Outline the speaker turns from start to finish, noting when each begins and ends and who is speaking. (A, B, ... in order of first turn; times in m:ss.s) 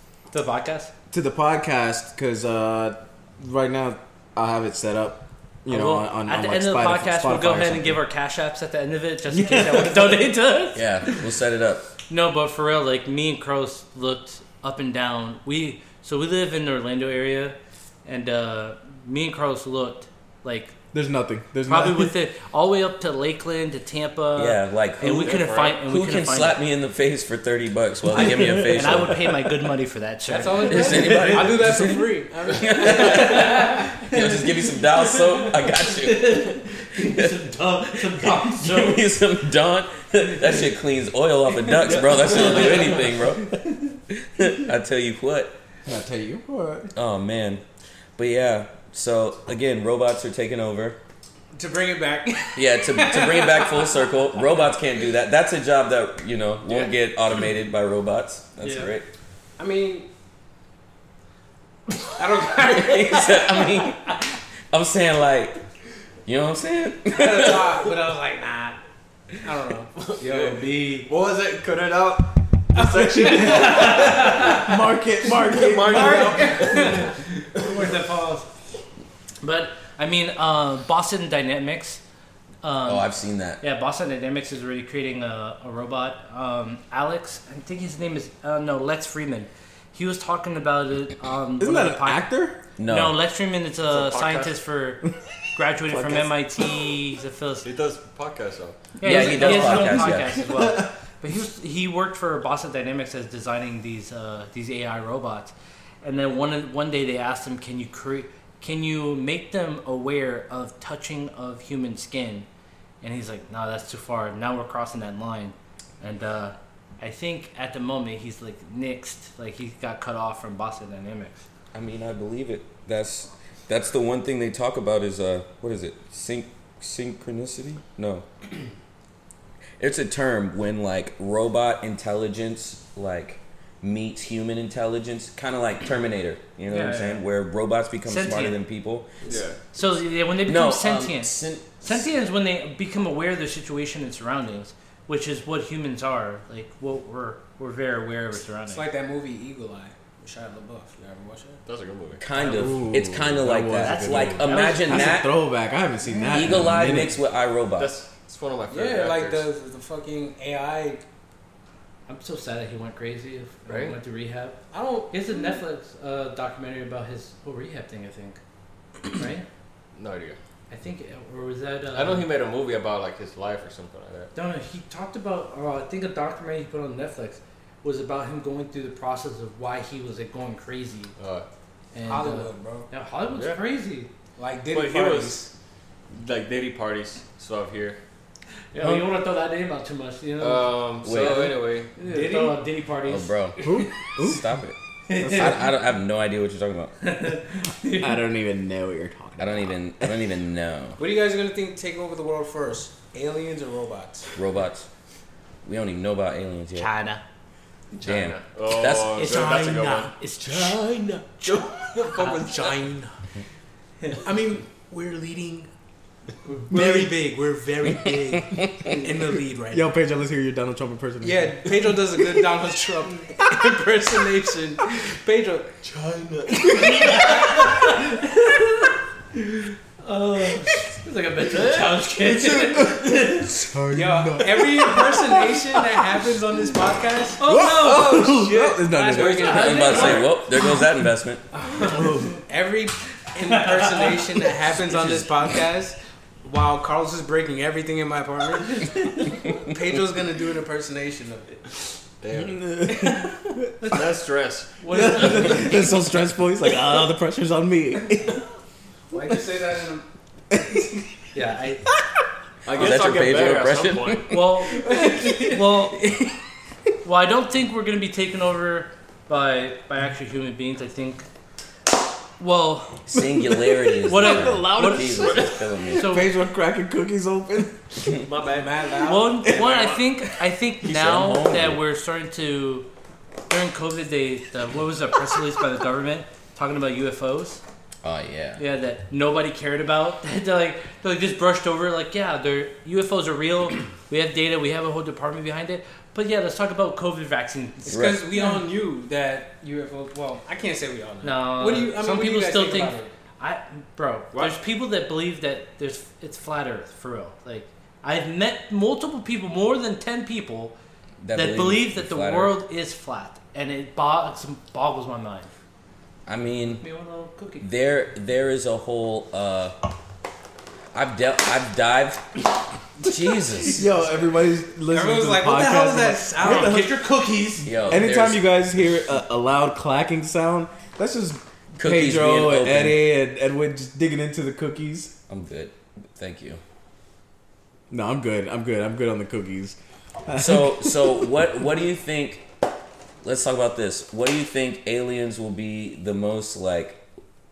0:00.3-0:00.9 A
0:01.1-0:08.0 B
0:05.7-0:10.8 A
0:09.3-0:10.2 B
0:10.8-0:11.9 C
0:12.1-0:20.7 A
0:20.9-0:22.1 B
0:21.7-0:26.6 A
0:24.4-0:29.4 C
0:25.2-0:25.8 D
0:28.2-0:31.4 A
0:28.2-0:28.9 B
0:30.3-0:33.8 E
0:30.7-0:37.3 C
0:32.8-0:39.0 A
0:38.2-0:43.5 C
0:42.3-0:43.0 D
0:42.3-0:43.0 A
0:44.1-0:45.5 C
0:45.9-0:46.9 B
0:47.0-0:47.6 C
0:48.2-0:51.0 C
0:51.5-0:54.0 E
0:52.6-0:59.0 C
0:58.6-0:58.9 A
0:59.6-1:00.1 E
1:02.0-1:03.9 E
1:02.5-1:05.6 C
1:06.3-1:07.8 C
1:07.1-1:08.8 E
1:09.4-1:10.8 E
1:10.0-1:14.6 D
1:10.2-1:11.1 A
1:12.8-1:14.4 E
1:13.0-1:16.6 B
1:13.2-1:14.7 A
1:15.2-1:17.8 D
1:15.8-1:18.2 E
1:16.4-1:17.0 A
1:17.6-1:18.4 A
1:19.4-1:22.0 A
1:22.6-1:23.1 A
1:22.9-1:23.6 C
1:23.6-1:32.3 A
1:31.6-1:32.6 B
1:32.8-1:33.2 C
1:32.9-1:37.7 A
1:33.9-1:34.6 D
1:35.9-1:36.2 B
1:37.6-1:38.8 D
1:39.0-1:52.5 A
1:39.0-1:40.3 C
1:39.6-1:40.9 B
1:53.0-2:01.4 A
2:01.7-2:08.3 C
2:09.8-2:19.1 C
2:16.7-2:17.2 A
2:18.0-2:18.6 A
2:19.3-2:19.6 D
2:19.7-2:28.9 A
2:20.5-2:22.0 C
2:28.7-2:31.6 E
2:31.6-2:32.2 D
2:32.2-2:35.3 C
2:32.4-2:32.8 A
2:32.5-2:37.2 B
2:33.8-2:35.2 A
2:36.3-2:37.9 C
2:37.8-2:39.5 D
2:38.7-2:41.0 E
2:42.1-2:44.6 A
2:43.7-2:44.0 D
2:44.7-2:45.2 E
2:45.1-2:48.4 A
2:49.1-2:49.5 A
2:50.0-2:50.4 D
2:50.7-2:52.3 A
2:51.9-2:54.3 D
2:54.4-3:01.1 A
3:01.2-3:01.5 D
3:01.9-3:04.1 A
3:02.0-3:02.9 E
3:03.3-3:03.6 D
3:04.4-3:05.5 E
3:04.7-3:05.4 D
3:06.1-3:08.0 D
3:08.7-3:10.8 A
3:10.4-3:11.9 D
3:11.0-3:11.6 C
3:12.0-3:14.0 A
3:12.0-3:12.6 E
3:13.1-3:13.6 C
3:13.6-3:14.4 B
3:14.2-3:14.8 C
3:15.1-3:15.6 A
3:15.2-3:15.6 B
3:15.3-3:16.9 C
3:17.0-3:18.2 A
3:18.0-3:19.8 B
3:19.4-3:21.0 C
3:21.0-3:24.3 E
3:24.4-3:24.9 C
3:25.6-3:26.9 C
3:26.8-3:27.2 A
3:27.9-3:30.8 D
3:28.0-3:29.3 C
3:29.2-3:32.5 A
3:31.5-3:32.5 D
3:32.0-3:33.1 E
3:34.2-3:35.7 E
3:36.7-3:39.9 E
3:36.7-3:37.1 B
3:39.7-3:42.2 B
3:41.2-3:45.8 E
3:45.8-3:47.2 D
3:46.8-3:47.7 E
3:46.8-3:48.9 A
3:50.0-3:53.6 A
3:52.4-3:55.4 B
3:53.9-3:57.5 E
3:57.4-4:00.4 A
3:57.4-3:59.6 B
3:57.8-4:00.3 D
3:58.8-4:00.1 E
3:59.4-4:01.4 C
4:01.6-4:11.6 E
4:01.8-4:02.4 B
4:03.4-4:04.4 A
4:12.2-4:12.7 D
4:12.3-4:14.0 B
4:13.8-4:14.0 A
4:13.9-4:15.5 D
4:14.8-4:15.9 A
4:14.9-4:18.4 B
4:19.1-4:20.1 E
4:20.5-4:20.8 B
4:21.3-4:21.9 A
4:22.7-4:24.3 D
4:22.7-4:24.5 C
4:24.3-4:26.1 A
4:24.8-4:25.6 E
4:27.0-4:31.3 A
4:32.4-4:33.1 A
4:33.1-4:36.2 C
4:33.2-4:38.0 B
4:34.0-4:36.3 A
4:35.2-4:35.5 D
4:38.2-4:40.0 D
4:38.5-4:39.5 E
4:39.0-4:42.9 A
4:40.8-4:41.8 C
4:43.5-4:47.6 A
4:48.0-4:48.6 C
4:48.6-4:58.6 A
4:57.8-5:03.1 E
4:57.9-4:58.2 C
5:01.2-5:10.8 A
5:11.2-5:12.6 C
5:11.3-5:15.5 A
5:16.3-5:16.8 C
5:16.8-5:17.7 A
5:17.6-5:19.8 C
5:20.9-5:22.4 C
5:23.0-5:23.9 C
5:23.7-5:26.9 B
5:24.9-5:27.0 E
5:26.4-5:27.7 A
5:27.6-5:28.4 C
5:27.9-5:35.1 B
5:31.8-5:33.1 C
5:35.3-5:36.6 C
5:37.9-5:41.3 B
5:40.4-5:42.4 C
5:43.2-5:47.0 C